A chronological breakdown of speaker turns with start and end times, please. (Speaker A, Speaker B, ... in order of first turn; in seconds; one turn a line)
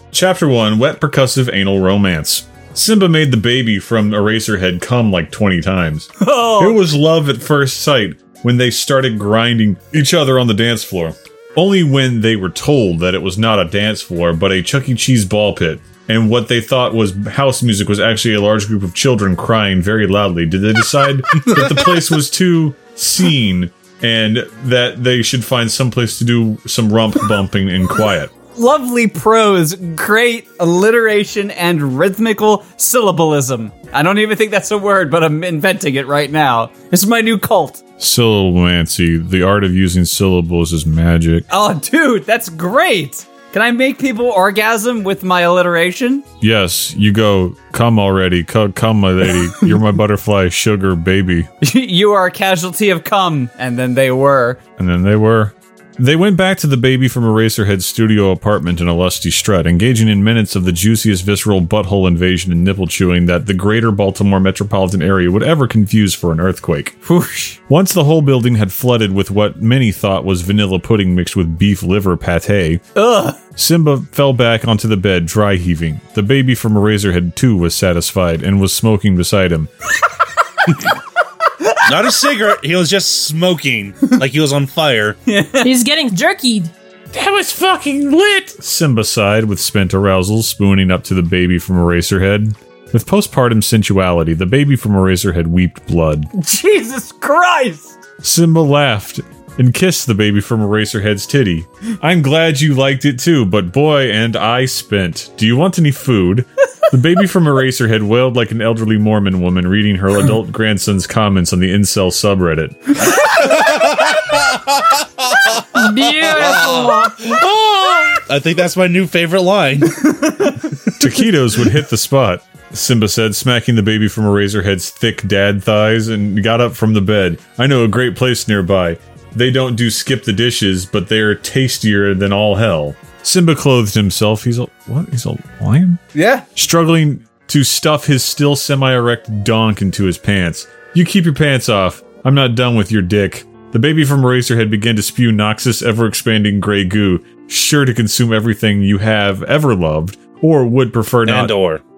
Speaker A: 0.1-28.3
Speaker B: 6.2-6.8
Speaker B: 28.5-37.8
Speaker A: 38.0-41.5
Speaker B: 41.5-46.2
Speaker A: 46.4-51.5
Speaker B: 51.6-54.6
Speaker A: 54.8-67.0
Speaker B: 67.0-67.6
Speaker A: 67.7-72.8
Speaker B: 73.0-73.4
Speaker A: 73.5-79.7
Speaker C: 81.9-85.2
Speaker B: 85.2-85.7
Speaker D: 85.6-86.7
Speaker A: 87.1-96.3
Speaker B: 96.3-98.0
Speaker A: 98.2-113.0
Speaker C: 113.4-115.6
Speaker D: 115.8-117.3
Speaker C: 116.2-120.1
Speaker B: 120.1-120.5
Speaker A: 121.0-136.0
Speaker B: 136.1-136.4
Speaker A: 136.6-151.5
Speaker C: 151.2-151.8